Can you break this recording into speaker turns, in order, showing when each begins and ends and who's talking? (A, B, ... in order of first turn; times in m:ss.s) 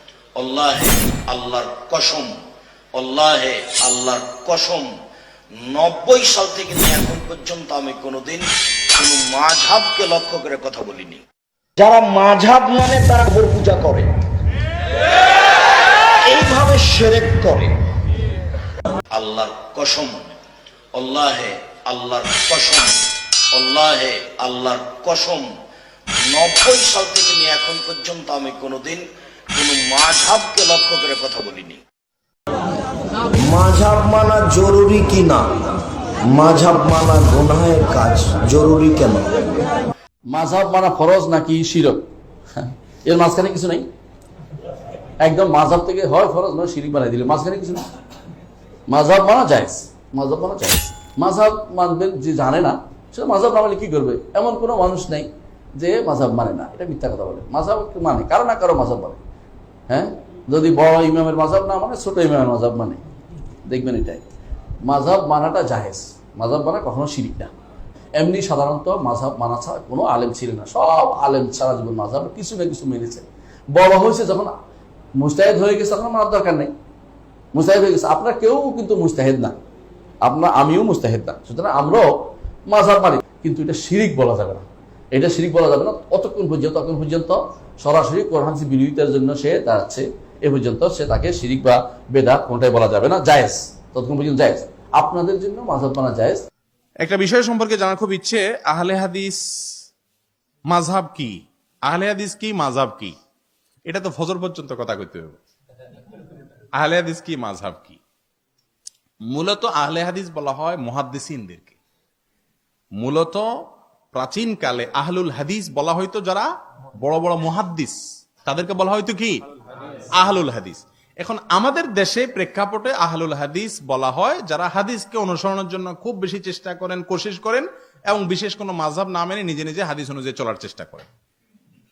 0:00.4-0:02.4 A
0:02.9-0:04.9 A
0:05.6-0:11.2 A
0:11.8-0:14.0 B
0:12.7-0:14.0 A
0:16.3-0:17.3 B
0:16.4-0:17.7 A
0:19.1-0:20.3 A
0:20.9-0:25.5 A
0:26.2-0:31.8 A
0:33.4-0:35.6 B
0:36.3-0:39.6 B
0:40.3-0:42.0 C
0:42.5-0:43.8 C
0:45.2-0:47.8 C
0:48.9-0:59.2 C
0:59.9-1:03.0 C
1:03.6-1:04.2 C
1:04.8-1:07.5 C
1:08.2-1:14.5 C
1:15.2-1:16.7 C
1:17.5-1:19.6 C
1:20.2-1:22.1 C
1:22.7-1:36.4 C
1:37.0-1:39.8 D
1:40.7-1:43.1 D
1:43.8-1:45.4 D
1:46.7-1:48.0 D
1:49.3-1:51.8 D
1:53.0-1:53.5 D
1:54.1-1:56.5 D
1:57.0-1:59.4 D
2:00.1-2:11.1 D